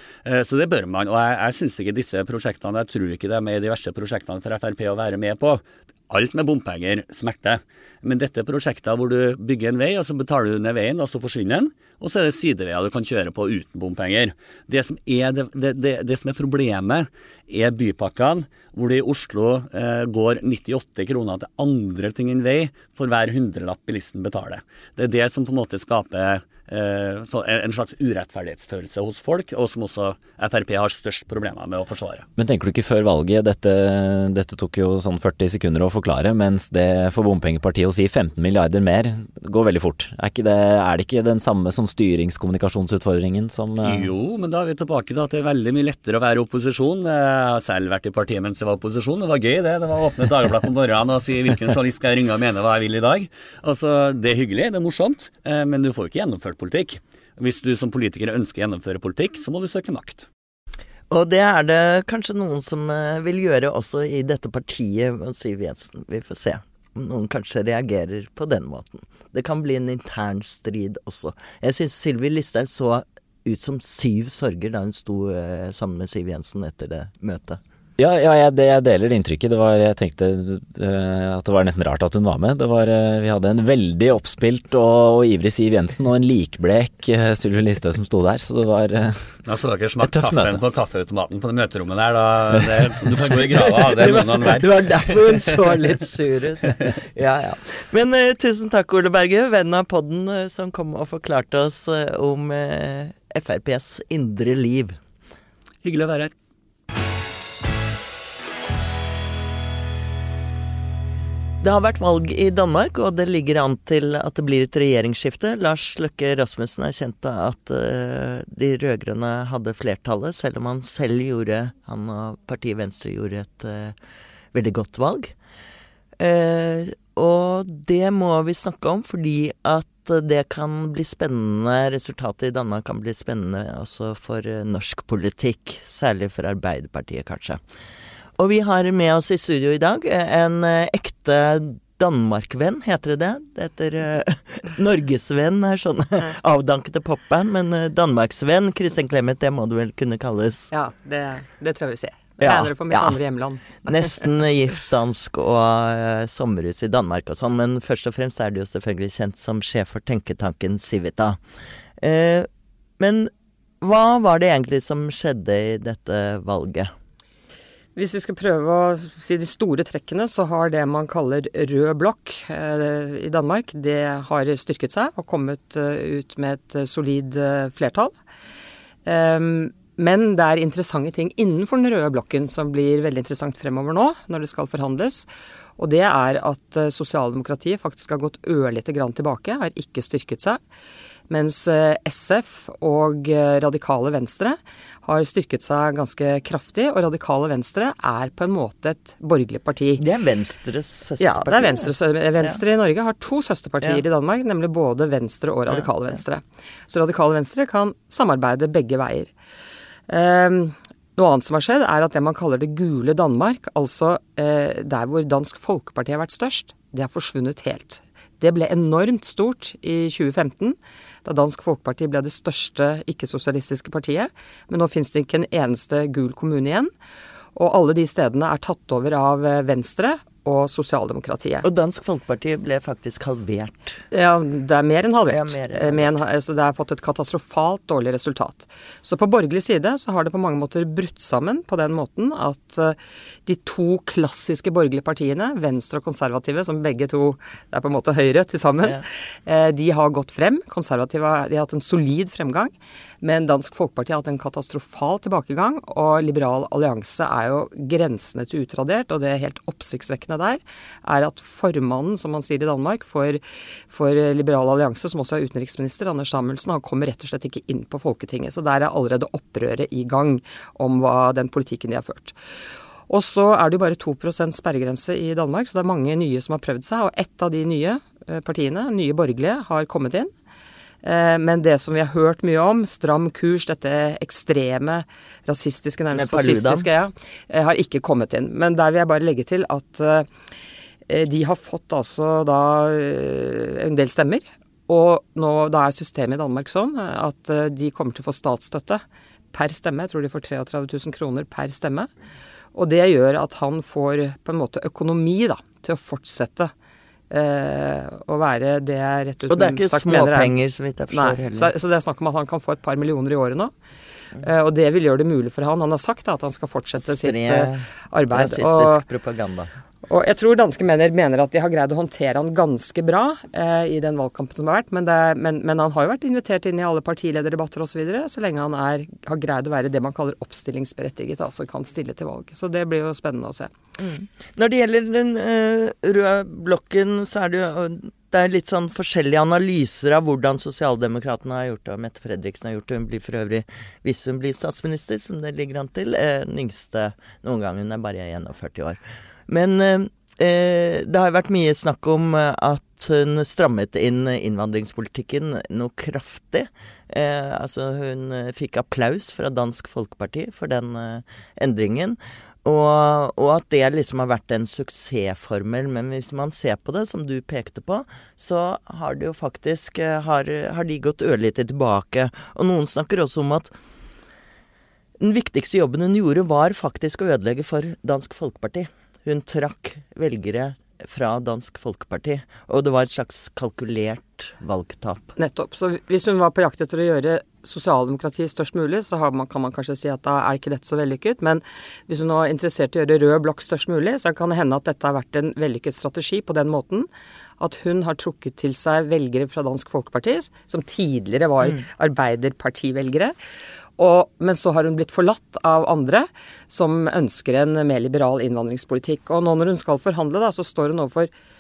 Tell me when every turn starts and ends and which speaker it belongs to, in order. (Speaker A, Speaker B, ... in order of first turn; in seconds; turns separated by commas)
Speaker A: 0.2-32.2, Speaker B: 32.4-44.1, Speaker A: 43.8-60.3, Speaker C: 61.1-77.6, Speaker B: 78.0-89.3, Speaker A: 89.4-95.8, Speaker B: 90.0-90.6, Speaker C: 93.8-105.0, Speaker A: 105.8-106.3, Speaker C: 111.6-123.9, Speaker C: 124.5-125.3, Speaker C: 126.2-137.6, Speaker C: 138.4-150.7, Speaker D: 150.7-154.2, Speaker C: 152.4-153.2, Speaker C: 153.8-161.4, Speaker C: 162.0-162.5, Speaker C: 163.0-163.3, Speaker C: 163.8-166.9, Speaker D: 167.9-178.1, Speaker D: 179.0-185.3, Speaker D: 185.8-190.6, Speaker D: 191.3-200.0, Speaker C: 200.0-202.6, Speaker D: 201.2-209.3, Speaker D: 210.1-226.9, Speaker D: 227.5-231.7, Speaker C: 231.6-234.0, Speaker D: 234.1-272.3, Speaker C: 235.3-236.2, Speaker D: 273.1-280.3, Speaker D: 281.0-290.3, Speaker C: 286.1-286.9, Speaker D: 291.1-302.1, Speaker D: 302.7-306.7, Speaker D: 307.3-310.5, Speaker C: 309.5-311.7, Speaker D: 311.1-313.7, Speaker D: 314.4-319.1, Speaker C: 317.0-319.7, Speaker D: 320.1-333.7, Speaker C: 334.0-373.7, Speaker C: 375.2-385.3, Speaker D: 385.4-397.1, Speaker D: 397.6-403.4, Speaker D: 404.0-411.3